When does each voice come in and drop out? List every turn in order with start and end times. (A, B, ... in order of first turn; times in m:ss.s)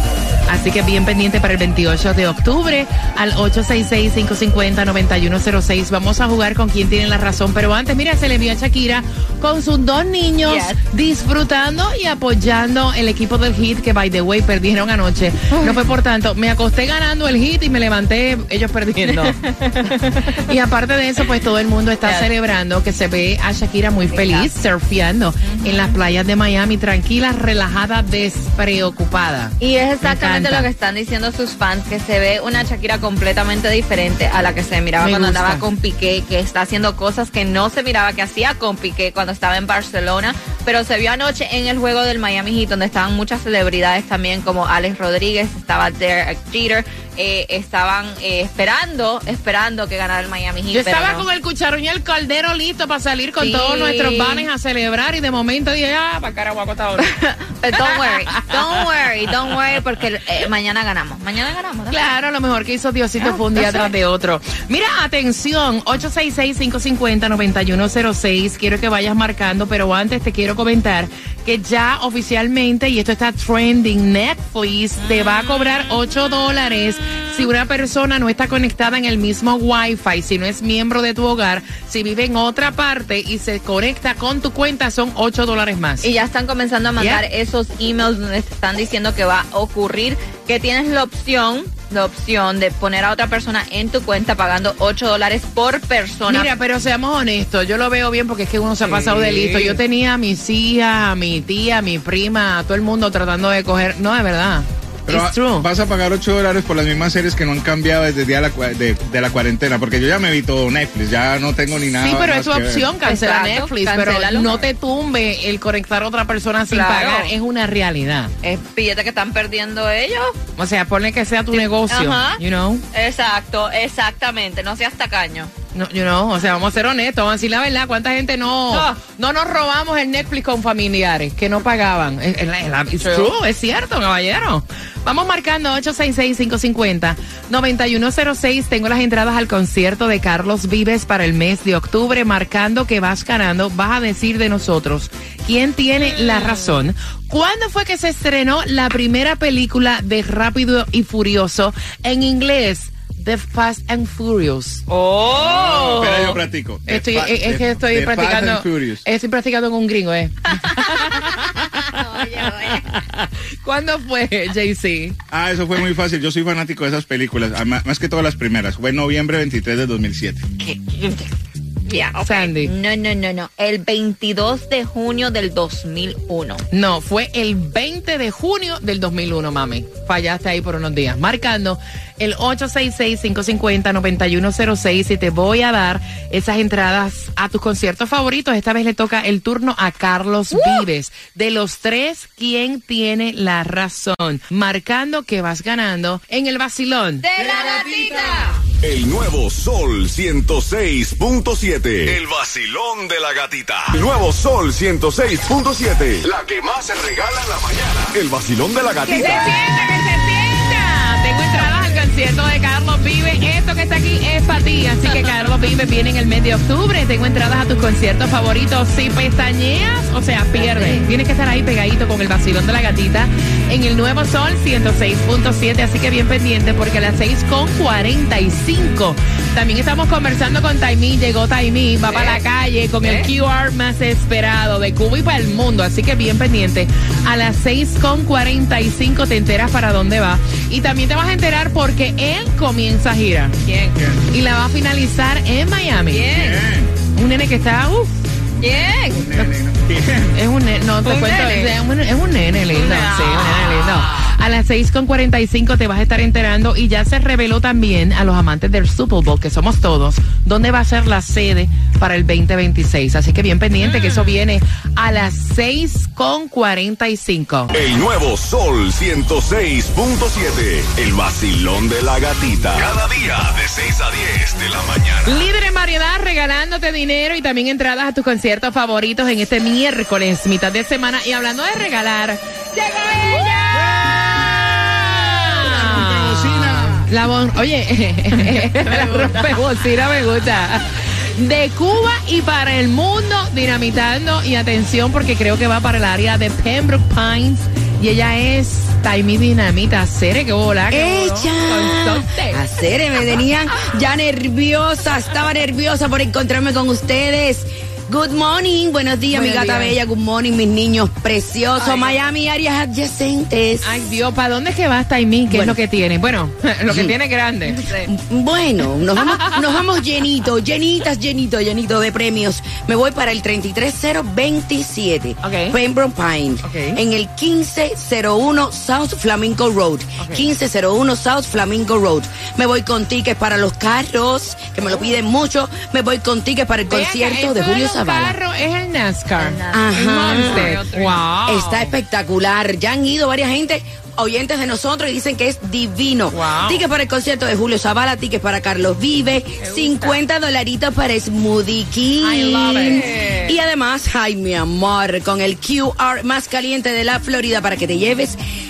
0:00.5-0:19.4 A
0:10.4-0:10.8 B
0:19.0-0:20.4 B
0:20.4-0:30.7 A
0:22.0-0:22.3 B
0:24.1-0:24.5 B
0:25.4-0:26.0 B
0:29.6-0:51.2 B
0:35.0-0:35.6 A
0:50.7-0:57.1 A
0:53.4-0:54.5 B
0:57.0-1:02.0 B
1:01.9-1:26.1 A
1:03.2-1:03.9 B
1:15.1-1:15.4 B
1:26.0-1:36.5 B
1:27.0-1:27.2 A
1:36.3-1:45.7 A
1:38.8-1:39.8 B
1:45.1-1:52.9 C
1:52.0-1:58.3 A
1:53.0-1:54.7 B
1:56.7-1:57.3 B
1:58.4-2:00.4 B
2:00.6-2:02.8 A
2:01.5-2:02.4 B
2:02.9-2:05.5 B
2:05.7-2:34.8 A
2:08.7-2:09.0 B
2:13.0-2:13.3 B
2:26.0-2:26.8 B
2:34.9-2:36.4 B
2:35.4-2:39.0 C
2:36.9-2:41.2 A
2:40.6-2:42.9 B
2:43.6-2:45.2 A
2:45.3-2:50.4 C
2:50.6-2:51.3 B
2:51.9-2:56.6 B
2:52.2-2:52.7 A
2:56.7-3:17.2 A
3:10.5-3:10.9 B
3:17.2-3:18.6 B
3:18.8-3:29.6 D
3:29.0-4:03.6 A
3:40.6-3:41.0 B
3:52.0-3:52.4 B
3:53.0-3:53.3 B
4:03.6-4:04.0 B
4:04.0-4:04.3 C
4:04.3-4:06.3 A
4:06.1-4:06.7 B
4:06.3-4:06.9 C
4:07.2-4:08.2 A
4:08.6-4:09.2 B
4:08.6-4:10.4 C
4:10.3-4:27.7 A
4:11.0-4:11.8 B
4:12.7-4:14.3 B
4:23.8-4:24.4 B
4:27.7-4:35.4 D
4:35.2-5:02.6 A
4:43.9-4:47.1 C
4:48.7-4:49.3 B
5:00.9-5:14.1 E
5:09.3-5:10.0 A
5:13.8-5:17.9 A
5:15.5-5:15.8 E
5:16.9-5:17.1 E
5:17.6-5:18.1 B
5:18.1-5:38.4 E
5:19.2-5:19.5 A
5:25.4-5:25.8 A
5:26.6-5:27.0 A
5:30.2-5:30.5 A
5:36.9-5:42.0 A
5:39.4-5:41.3 B
5:39.7-5:40.8 E
5:41.5-5:58.4 E
5:46.3-5:46.9 A
5:49.6-5:50.2 A
5:52.2-5:53.0 A
5:52.7-5:53.6 B